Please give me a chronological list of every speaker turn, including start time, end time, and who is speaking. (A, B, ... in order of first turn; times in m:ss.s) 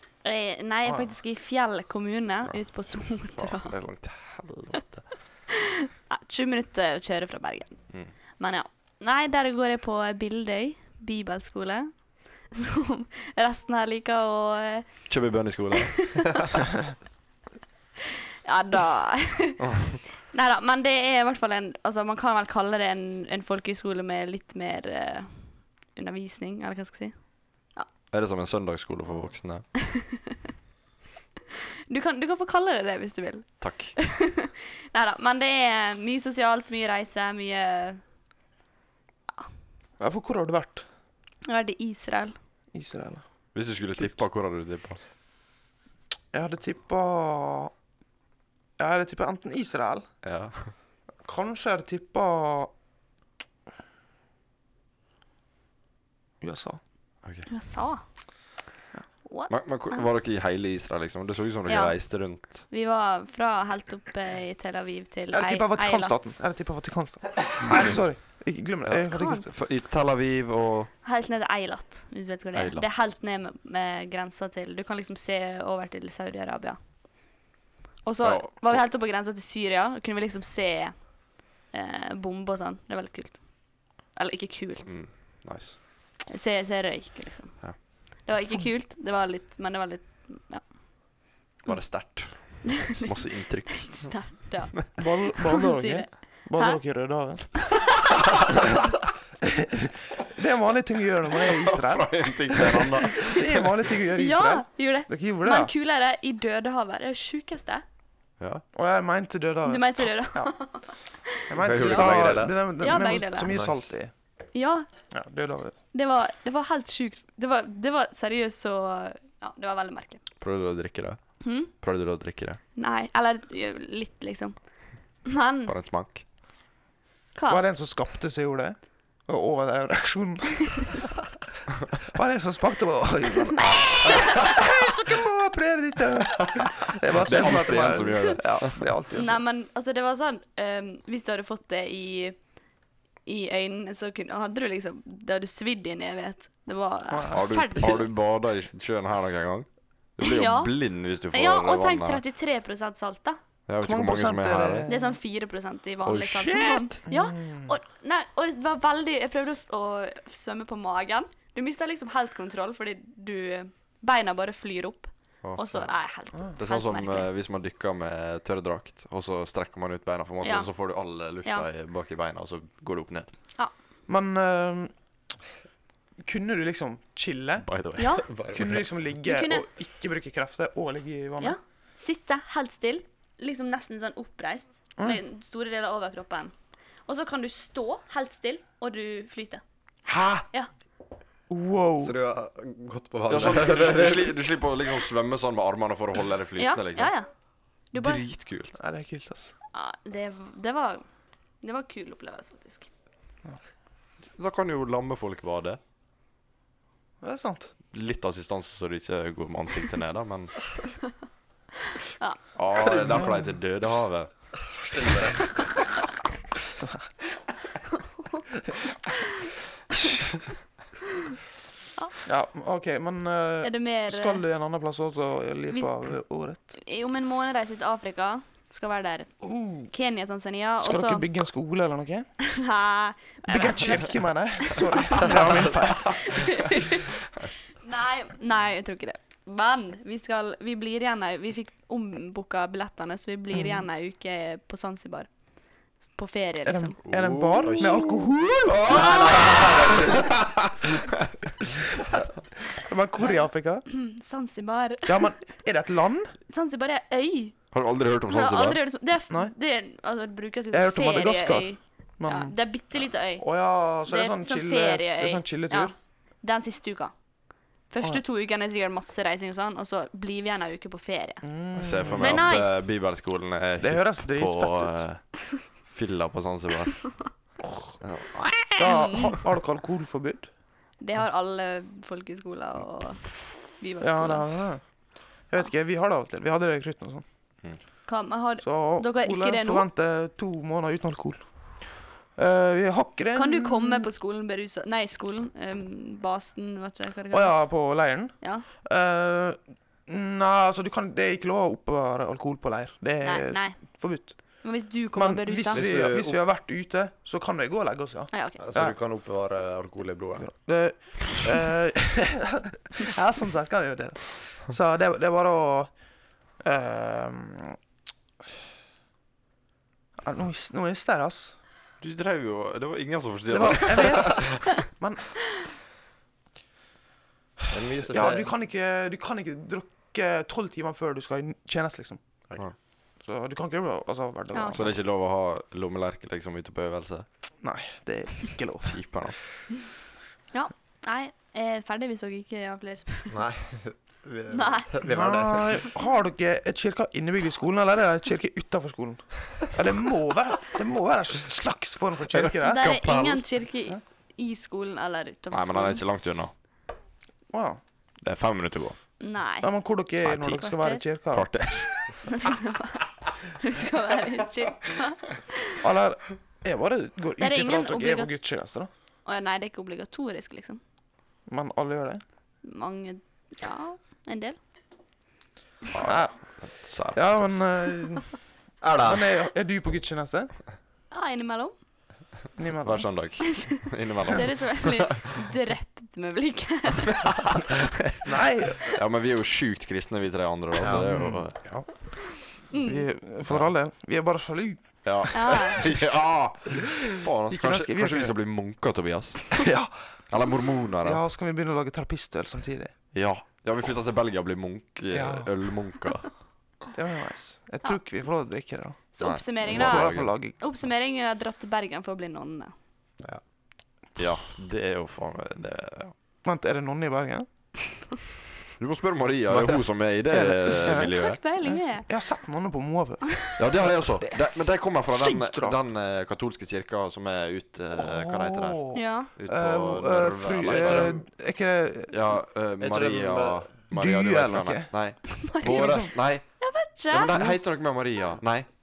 0:00.2-0:03.7 A
0:02.5-0:05.0 B
0:05.5-0:11.9 A
0:12.5-0:15.1 A
0:15.1-0:16.3 B
0:15.8-0:16.3 A
0:18.4-0:27.9 A
0:19.6-0:20.0 B
0:28.1-0:29.7 B
0:29.8-0:30.2 A
0:31.9-0:38.0 A
0:33.6-0:34.0 B
0:40.0-0:40.8 C
0:41.4-0:42.4 A
0:42.7-0:43.2 C
0:43.5-0:45.0 B
0:46.3-0:47.7 C
0:48.8-0:50.1 C
0:50.2-0:50.7 B
0:51.2-0:52.7 C
0:56.4-0:56.8 C
0:57.5-0:58.0 A
0:59.2-1:00.1 A
0:59.5-1:02.6 B
1:01.7-1:06.4 A
1:05.3-1:09.5 C
1:08.8-1:10.9 B
1:09.1-1:09.4 A
1:11.0-1:16.8 A
1:12.5-1:12.9 B
1:18.0-1:25.0 A
1:18.2-1:18.8 B
1:24.9-1:25.8 B
1:26.3-1:31.8 A
1:31.6-1:34.4 B
1:32.6-1:36.8 A
1:35.0-1:37.6 C
1:38.3-1:38.7 B
1:39.4-1:45.7 C
1:41.4-1:43.7 B
1:44.2-1:47.8 A
1:48.7-1:50.5 C
1:49.6-1:53.6 A
1:51.5-1:54.1 C
1:51.6-1:52.6 D
1:53.5-1:53.9 D
1:54.5-1:54.9 A
1:55.1-1:55.8 C
1:55.9-2:00.2 A
2:00.4-2:02.6 B
2:01.4-2:01.7 A
2:02.8-2:04.6 A
2:05.2-2:05.7 A
2:05.7-2:06.2 B
2:07.4-2:07.6 A
2:07.5-2:11.1 C
2:12.0-2:19.4 C
2:17.2-2:18.9 B
2:19.1-2:22.4 A
2:23.2-2:28.1 A
2:27.1-2:27.4 C
2:27.3-2:32.2 B
2:30.2-2:30.8 A
2:31.3-2:33.4 A
2:33.7-2:34.9 B
2:33.8-2:35.2 C
2:34.9-2:47.3 A
2:36.1-2:37.0 B
2:37.1-2:37.7 C
2:45.4-2:45.9 B
2:46.6-2:53.3 B
2:50.4-2:50.7 A
2:54.1-2:54.9 C
2:56.2-2:57.7 C
2:57.6-2:58.2 B
2:58.0-2:58.3 A
2:58.3-2:58.8 D
2:58.5-3:01.6 C
2:59.2-2:59.7 A
3:01.4-3:06.5 A
3:07.1-3:09.6 A
3:10.1-3:10.5 B
3:11.5-3:12.1 C
3:12.0-3:14.4 D
3:13.3-3:17.1 B
3:16.6-3:17.3 A
3:17.9-3:18.2 A
3:17.9-3:18.8 B
3:18.8-3:19.5 C
3:19.7-3:21.0 A
3:21.6-3:22.9 A
3:24.3-3:25.8 B
3:27.2-3:27.7 C
3:27.9-3:30.6 B
3:32.0-3:33.1 A
3:32.6-3:34.3 B
3:33.1-3:33.5 C
3:34.9-3:35.5 D
3:38.2-3:38.4 A
3:39.0-3:40.1 A
3:42.2-3:46.7 C
3:43.6-3:44.4 A
3:46.7-3:49.3 A
3:49.4-3:49.9 C
3:49.8-3:51.3 A
3:50.8-3:52.3 C
3:52.4-3:57.2 A
3:53.5-3:56.8 C
3:57.8-4:05.3 A
4:03.5-4:03.9 C
4:06.0-4:07.0 A
4:06.6-4:09.1 C
4:07.0-4:08.0 B
4:07.6-4:08.0 D
4:08.7-4:11.1 B
4:08.9-4:10.3 D
4:12.7-4:13.9 C
4:13.2-4:15.3 A
4:15.1-4:16.4 C
4:16.5-4:17.6 A
4:17.7-4:18.8 B
4:18.3-4:23.5 A
4:20.7-4:22.6 C
4:23.4-4:25.9 C
4:24.0-4:27.1 A
4:27.9-4:31.4 A
4:31.4-4:32.6 C
4:31.8-4:37.1 B
4:32.2-4:32.8 A
4:33.8-4:35.1 C
4:38.0-4:38.9 B
4:38.8-4:39.4 A
4:38.8-4:40.5 C
4:41.0-4:44.5 A
4:44.0-4:44.8 C
4:45.5-4:47.2 C
4:48.1-4:49.9 A
4:48.6-4:54.1 C
4:53.3-4:57.8 A
4:57.3-5:04.4 C
4:58.4-4:58.7 A
5:03.2-5:04.0 A
5:04.6-5:05.9 A
5:05.1-5:09.0 C
5:05.7-5:06.4 D
5:08.3-5:08.6 A
5:08.6-5:10.5 D
5:10.4-5:15.9 C
5:16.6-5:17.8 C
5:20.2-5:21.6 C
5:22.0-5:24.7 B
5:23.5-5:25.4 C
5:27.7-5:28.5 D
5:28.1-5:32.2 C
5:33.2-5:35.0 C
5:34.5-5:34.8 A
5:34.7-5:37.3 B
5:37.6-5:39.0 C
5:38.9-5:39.4 B
5:40.5-5:43.4 A
5:43.3-5:45.8 D
5:44.5-5:45.0 A
5:45.0-5:52.9 C
5:52.3-5:53.4 B
5:52.6-5:56.0 A
5:55.5-5:56.5 B
5:57.5-5:57.8 C
5:58.2-5:59.0 B
5:59.2-5:59.7 A
5:59.6-6:01.5 C
6:00.2-6:00.6 B
6:00.5-6:01.0 A
6:01.3-6:02.0 B
6:02.3-6:05.8 A
6:05.8-6:08.9 C
6:07.4-6:08.3 A
6:09.3-6:10.8 A
6:11.5-6:12.2 C
6:12.6-6:14.6 A
6:15.9-6:17.7 B
6:16.0-6:16.4 C
6:17.1-6:18.4 C
6:18.8-6:19.3 D
6:19.0-6:20.5 C
6:21.1-6:21.8 A
6:22.6-6:23.1 C
6:22.8-6:25.1 B
6:23.4-6:27.6 A
6:27.4-6:28.2 B
6:28.2-6:28.9 C
6:28.8-6:31.6 B
6:30.9-6:32.1 C
6:32.7-6:35.9 C
6:32.7-6:33.0 A
6:35.0-6:39.6 B
6:35.3-6:35.8 A
6:37.5-6:38.4 C
6:39.6-6:39.9 C
6:40.3-6:41.2 B
6:41.0-6:42.9 C
6:43.1-6:46.3 B
6:45.1-6:45.5 C
6:46.9-6:49.0 C
6:49.1-6:52.7 A
6:49.2-6:50.3 B
6:49.6-6:50.6 C
6:54.2-6:56.1 B
6:56.4-6:57.5 C
6:58.8-7:01.4 B
6:59.5-6:59.8 D
7:00.3-7:04.4 C
7:00.9-7:02.1 A
7:03.6-7:11.2 B
7:05.1-7:05.8 C
7:08.0-7:12.1 C
7:08.9-7:09.3 A
7:10.6-7:11.2 D
7:12.1-7:16.5 B
7:12.8-7:13.7 D
7:13.9-7:14.9 C
7:15.4-7:17.4 A
7:15.6-7:16.1 C
7:17.1-7:18.7 B